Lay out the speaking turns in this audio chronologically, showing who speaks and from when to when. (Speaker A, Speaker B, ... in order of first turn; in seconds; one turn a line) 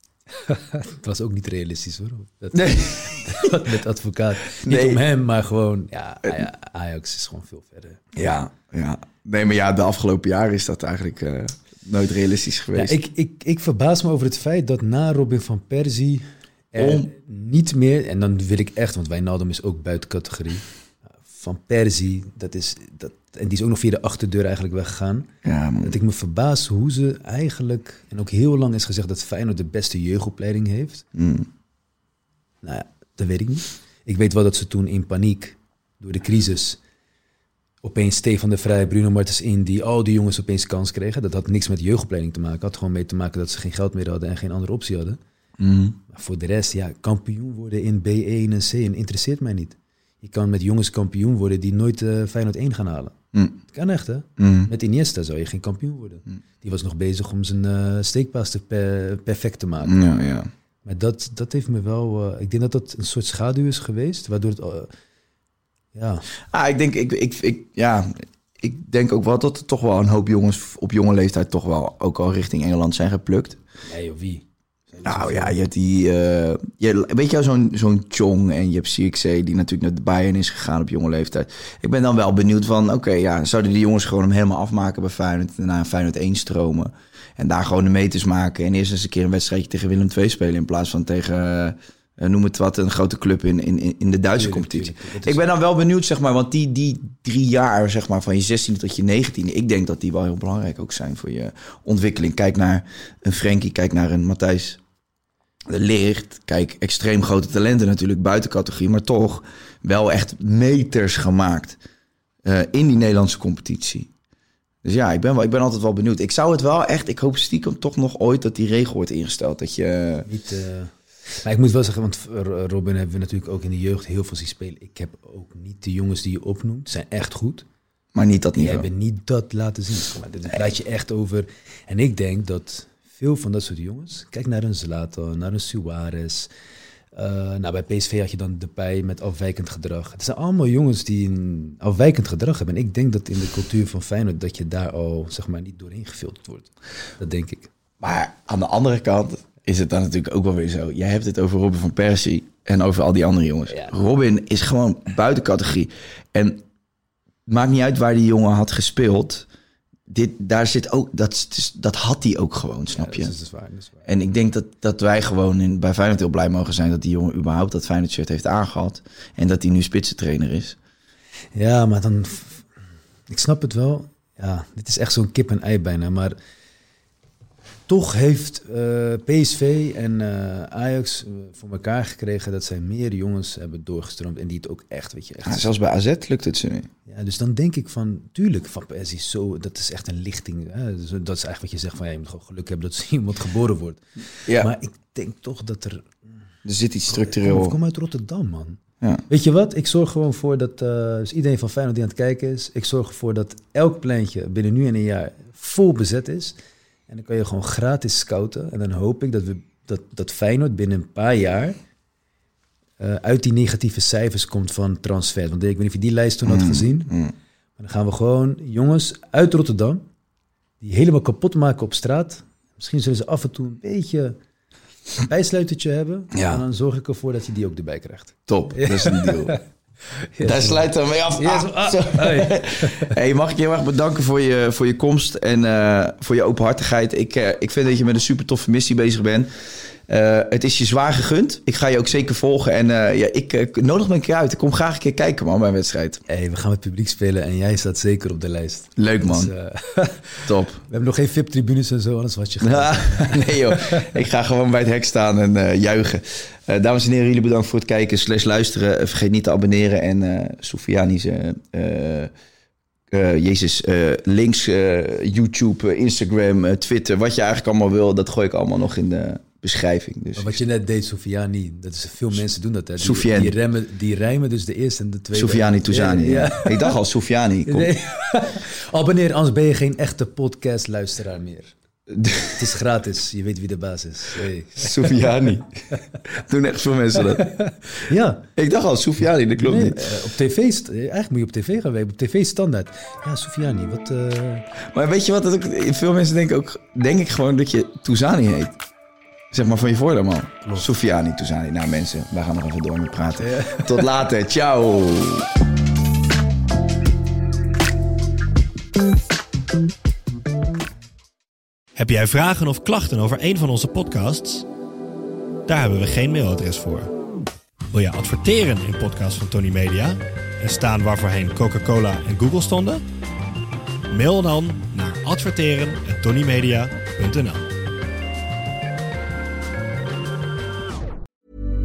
Speaker A: 0.4-8.0
Speaker B: 2.5-3.6
Speaker B: 4.5-5.0
Speaker B: 8.1-12.9
Speaker A: 12.7-25.3
Speaker B: 16.8-17.1
Speaker B: 25.4-25.9
Speaker A: 25.8-31.1
Speaker B: 31.1-31.5
Speaker A: 32.6-36.8
Speaker A: 37.8-45.2
Speaker B: 45.6-46.0
Speaker A: 46.1-53.1
Speaker B: 53.3-53.6
Speaker A: 53.7-60.0
Speaker B: 54.4-54.7
Speaker B: 59.8-60.5
Speaker A: 60.8-64.9
Speaker A: 65.9-66.2
Speaker B: 66.5-73.6
Speaker A: 73.9-75.5
Speaker B: 75.0-104.8
Speaker A: 94.3-95.4
Speaker B: 105.7-111.8
Speaker B: 112.4-114.1
Speaker B: 114.8-120.3
Speaker A: 120.2-127.7
Speaker B: 128.1-128.9
Speaker A: 128.6-136.5
Speaker A: 137.1-147.7
Speaker B: 148.0-156.6
Speaker A: 153.7-153.9
Speaker B: 157.5-159.5
Speaker B: 160.1-163.3
Speaker A: 162.9-164.1
Speaker B: 164.0-170.8
Speaker A: 171.5-172.7
Speaker A: 173.3-176.3
Speaker A: 177.9-185.7
Speaker B: 185.4-186.9
Speaker A: 187.1-196.2
Speaker B: 196.6-197.8
Speaker A: 197.1-206.6
Speaker A: 207.1-211.8
Speaker A: 213.0-217.1
Speaker B: 216.4-217.3
Speaker A: 217.8-220.0
Speaker A: 220.8-224.4
Speaker A: 225.2-229.6
Speaker B: 226.3-226.6
Speaker B: 228.5-229.6
Speaker A: 230.3-233.1
Speaker B: 230.4-239.5
Speaker B: 240.1-246.2
Speaker A: 246.3-254.1
Speaker B: 249.0-249.5
Speaker B: 250.4-250.8
Speaker B: 252.6-262.3
Speaker B: 263.1-270.6
Speaker A: 270.3-277.0
Speaker B: 273.0-273.5
Speaker B: 275.3-277.9
Speaker A: 277.6-281.7
Speaker B: 282.1-282.6
Speaker A: 282.5-285.2
Speaker B: 284.8-285.7
Speaker B: 286.2-287.5
Speaker A: 287.4-288.5
Speaker B: 288.6-290.1
Speaker A: 289.6-294.6
Speaker B: 294.9-298.8
Speaker B: 299.5-305.5
Speaker A: 300.6-300.9
Speaker A: 303.4-304.0
Speaker C: 311.9-314.7
Speaker C: 315.7-317.1
Speaker C: 317.9-323.0
Speaker C: 324.1-327.6